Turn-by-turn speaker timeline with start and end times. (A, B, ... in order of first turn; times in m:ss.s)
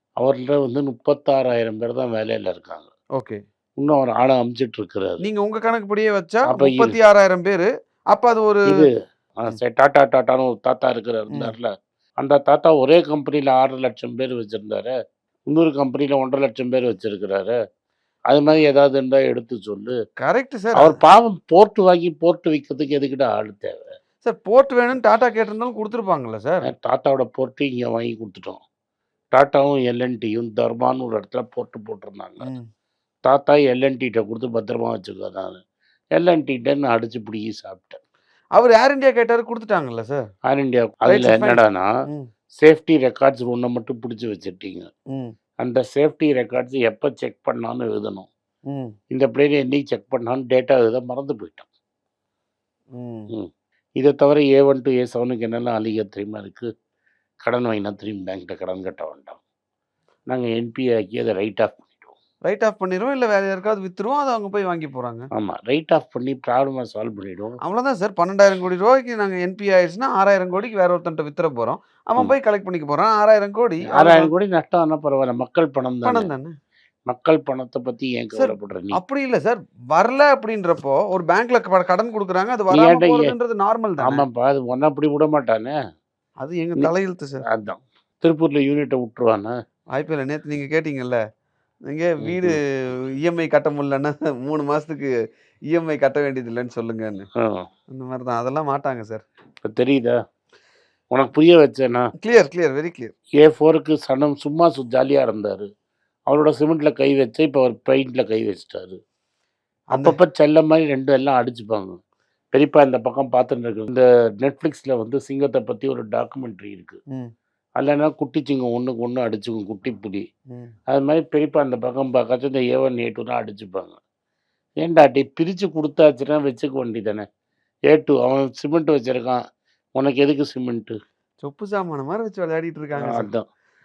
0:00.2-0:02.9 A
0:03.8-0:05.2 A
0:05.2-0:08.9 B
0:06.5-0:07.0 A
0:09.4-0:11.7 A
0:12.2-0:14.9 A
0:15.5-0:17.5 A
0:18.3-0:19.9 A
0:20.2-0:21.0 B
0:20.8-0:23.9 A
0:24.2-0:26.7 B
0:26.7-0:28.6 A
0:29.3-0:32.5 A
0:32.4-0:32.7 B
0:33.3-0:35.6 A
0:36.1-0:38.0 A
0:38.6-0:40.3 B
0:40.5-0:41.9 A
0:41.0-0:42.3 B
0:42.6-0:44.9 A
0:45.6-0:48.3 A
0:48.7-0:48.9 B
0:49.1-0:51.7 A
0:52.9-0:53.3 B
0:53.3-0:56.7 A
0:57.4-0:59.4 A
1:00.3-1:02.2 A
1:02.4-1:05.3 B
1:05.4-1:07.6 A
1:07.6-1:14.3 B
1:13.9-1:16.3 A
1:16.0-1:16.6 B
1:17.1-1:19.0 A
1:18.4-1:24.2 B
1:22.7-1:23.3 A
1:24.0-1:25.8 A
1:26.4-1:27.4 B
1:27.5-1:29.5 A
1:30.0-1:31.2 B
1:31.9-1:32.6 B
1:32.2-1:32.6 A
1:33.2-1:35.1 B
1:35.7-1:37.3 B
1:37.4-1:37.7 A
1:37.9-1:39.2 B
1:39.6-1:40.2 A
1:41.1-1:42.1 A
1:42.2-1:43.1 B
1:43.4-1:45.7 A
1:46.3-1:49.0 A
1:49.9-1:50.2 B
1:49.9-1:52.0 A
1:52.5-1:57.0 A
1:57.8-2:00.2 A
2:00.9-2:04.0 A
2:04.8-2:07.2 A
2:07.9-2:09.4 A
2:10.0-2:10.9 A
2:11.4-2:13.3 B
2:13.0-2:13.4 A